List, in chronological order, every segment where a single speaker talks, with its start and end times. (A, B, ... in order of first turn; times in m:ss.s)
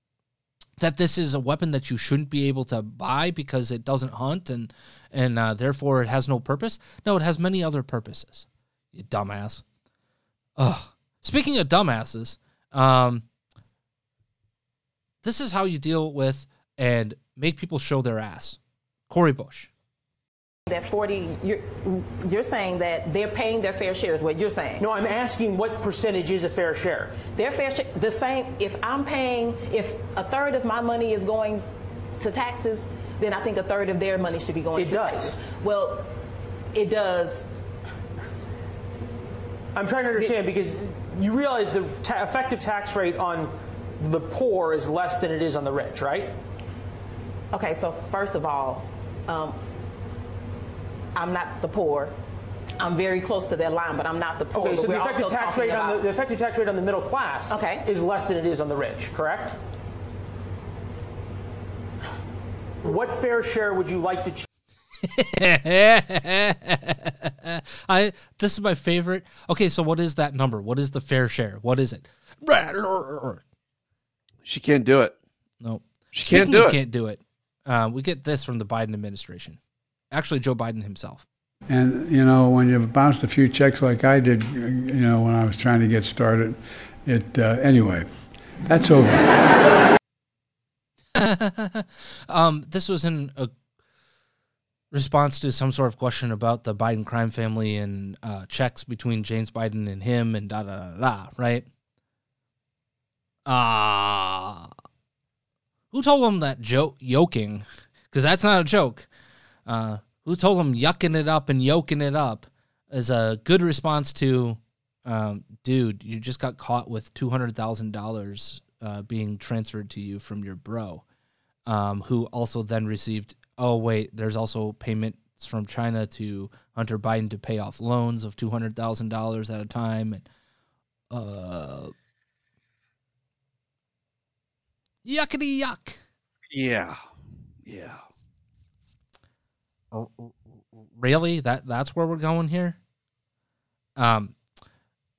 0:00.8-0:09.6 A
0:10.6-0:13.2 A
0:15.2-0:19.7 A
0:20.7-0:24.9 B
0:24.8-0:27.2 C
0:27.2-0:31.6 B
0:32.2-0:36.1 B
0:34.7-0:35.4 C
0:36.7-0:37.4 B
0:39.7-0:46.3 C
0:47.5-0:49.6 B
0:51.1-0:52.1 B
0:52.8-0:56.1 B
0:54.5-0:59.6 C
0:57.5-0:57.8 B
1:02.8-1:04.5 C
1:05.0-1:13.4 A
1:14.4-1:15.1 D
1:15.6-1:19.6 A
1:16.1-1:16.8 D
1:20.1-1:21.2 A
1:21.7-1:28.1 E
1:28.7-1:29.0 E
1:31.1-1:33.5 A
1:34.9-1:41.6 A
1:43.4-1:44.7 A
1:45.9-1:49.1 A
1:49.6-2:01.0 A
2:01.6-2:10.2 A
2:11.1-2:11.9 A
2:15.0-2:16.0 A
2:16.5-2:17.0 D
2:17.6-2:18.0 D
2:19.9-2:22.8 A
2:24.0-2:24.4 A